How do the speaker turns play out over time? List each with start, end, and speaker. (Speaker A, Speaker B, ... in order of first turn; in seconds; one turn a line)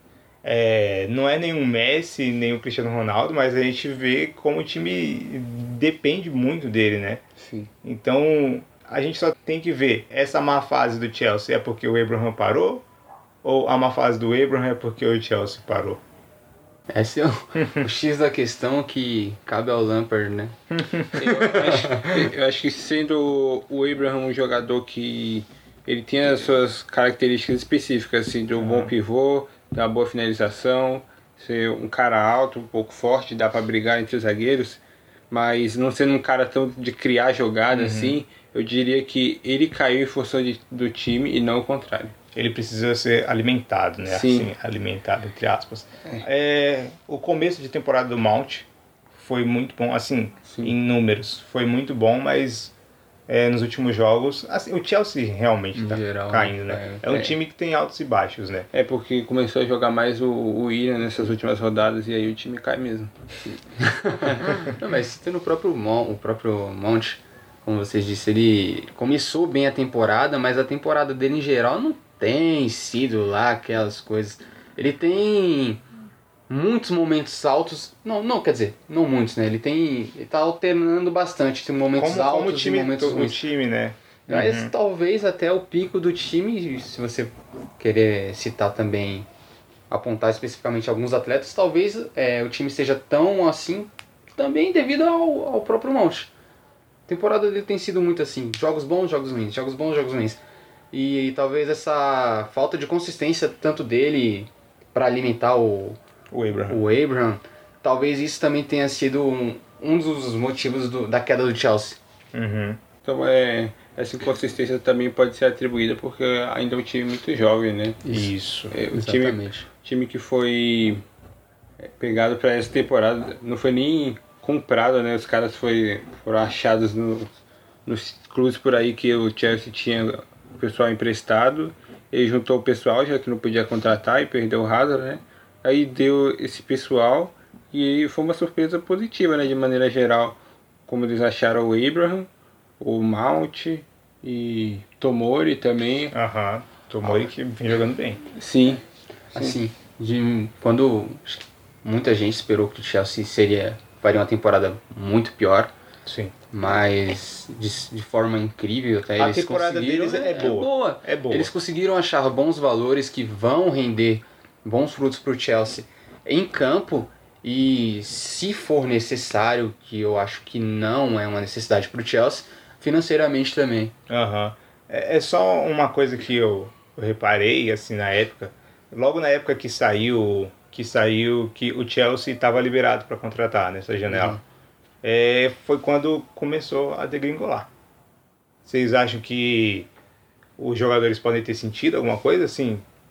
Speaker A: 0.4-7.2
Speaker B: 7.4-7.7
Speaker A: 7.8-12.8
Speaker A: 13.4-16.0
Speaker C: 16.9-20.6
Speaker A: 20.7-21.1
Speaker C: 21.1-22.1
Speaker B: 21.1-42.1
Speaker A: 28.6-28.9
Speaker A: 37.7-38.2
Speaker A: 42.3-52.7
Speaker B: 44.1-44.5
Speaker B: 50.5-50.7
Speaker A: 53.3-58.7
Speaker C: 55.7-57.0
Speaker B: 58.7-63.6
Speaker C: 63.8-75.8
Speaker C: 76.5-83.4
Speaker A: 81.9-84.7
Speaker C: 84.3-89.3
Speaker C: 89.9-96.3
Speaker C: 97.1-100.4
Speaker C: 100.9-106.0
Speaker A: 106.3-106.8
Speaker C: 106.7-112.0
Speaker A: 112.3-112.8
Speaker B: 113.0-118.2
Speaker A: 118.1-118.7
Speaker B: 118.7-121.0
Speaker C: 118.9-119.7
Speaker B: 121.8-127.3
Speaker B: 127.8-142.3
Speaker B: 142.8-146.2
Speaker A: 146.1-148.2
Speaker B: 148.3-149.6
Speaker C: 149.3-155.7
Speaker A: 156.1-156.3
Speaker C: 156.5-173.9
Speaker A: 159.2-161.5
Speaker A: 174.1-184.4
Speaker C: 184.1-184.4
Speaker A: 185.0-187.7
Speaker A: 188.7-189.9
Speaker A: 190.6-192.8